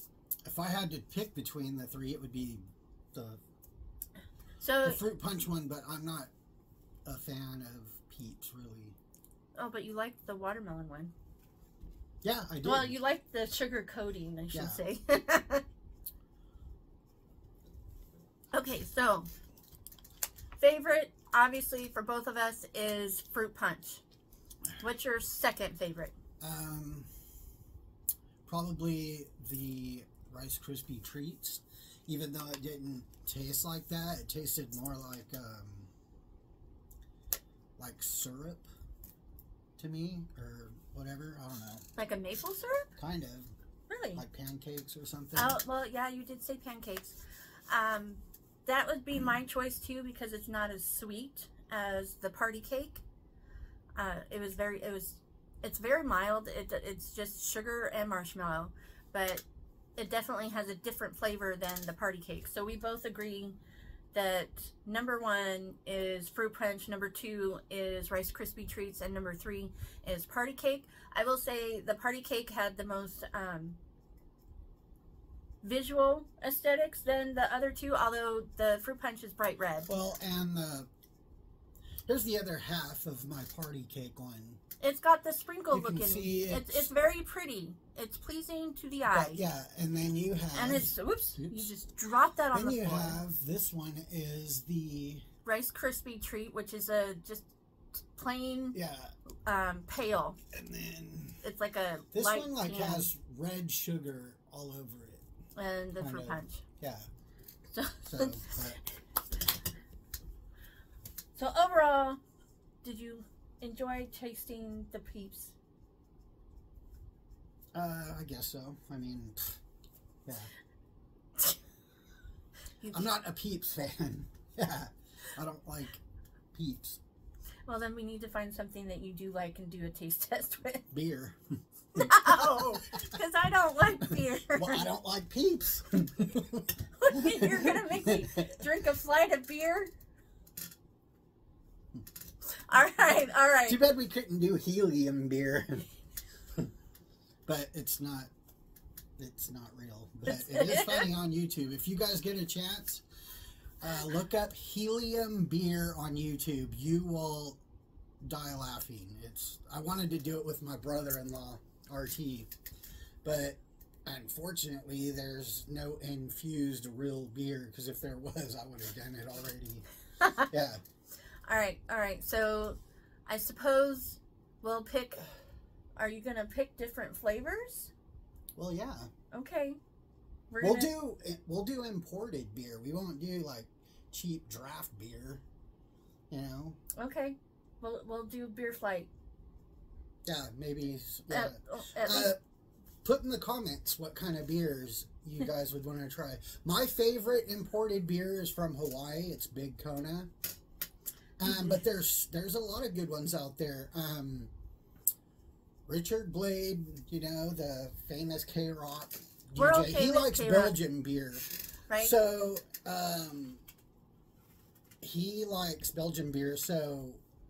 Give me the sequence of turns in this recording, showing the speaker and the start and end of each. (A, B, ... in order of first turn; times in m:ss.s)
0:00.4-0:03.4 A
0:04.6-0:05.0 B
0:04.8-0:06.3 A
0:07.0-0:09.0 A
0:09.6-0:11.1 B
0:12.2-0:13.0 A
0:12.6-0:15.6 B
0:14.5-0:14.8 A
0:18.5-0:19.3 B
0:20.6-0:24.0 B
0:24.8-0:26.1 B
0:26.4-0:27.1 A
0:28.5-0:35.9 A
0:37.8-0:38.7 A
0:39.8-0:41.9 A
0:42.0-0:42.9 B
0:43.0-0:43.5 A
0:43.9-0:44.2 B
0:44.2-0:45.6 A
0:45.4-0:53.0 B
0:54.0-0:59.4 B
1:00.0-1:03.6 B
1:04.1-1:13.8 B
1:15.6-1:19.9 B
1:19.9-1:20.9 A
1:22.1-1:24.6 A
1:24.8-1:29.4 B
1:25.7-1:26.9 A
1:29.1-1:31.7 A
1:30.5-1:33.2 B
1:32.5-1:35.2 A
1:35.4-1:38.8 B
1:38.7-1:39.1 A
1:39.5-1:40.4 B
1:40.5-1:41.4 A
1:41.4-1:43.1 B
1:42.1-1:45.2 A
1:45.6-1:46.6 B
1:46.0-1:47.1 A
1:47.7-1:48.6 B
1:48.0-1:48.8 A
1:51.4-1:52.2 B
1:52.8-1:55.6 B
1:57.7-1:59.6 A
2:00.3-2:00.5 A
2:02.8-2:03.1 B
2:02.9-2:06.0 A
2:06.5-2:07.0 A
2:07.7-2:10.8 B
2:10.9-2:11.4 A
2:11.9-2:13.2 A
2:12.0-2:14.9 B
2:14.0-2:18.5 A
2:17.0-2:19.9 B
2:22.6-2:23.8 B
2:23.7-2:25.9 A
2:27.5-2:28.3 A
2:29.2-2:33.0 A
2:30.3-2:31.1 B
2:33.8-2:37.6 A
2:38.2-2:42.5 A
2:43.2-2:49.9 A
2:50.5-2:50.8 A
2:51.5-2:55.2 B
2:56.0-2:57.9 B
2:58.6-2:59.1 A
2:59.3-2:59.8 B
3:00.5-3:00.9 B
3:00.6-3:05.4 A
3:06.3-3:06.8 A
3:07.0-3:09.1 B
3:10.2-3:12.4 A
3:11.3-3:12.3 B
3:13.0-3:20.3 A
3:21.4-3:24.5 A
3:21.5-3:21.8 B
3:25.9-3:33.6 A
3:29.6-3:30.8 B
3:31.9-3:32.1 B
3:35.0-3:37.2 A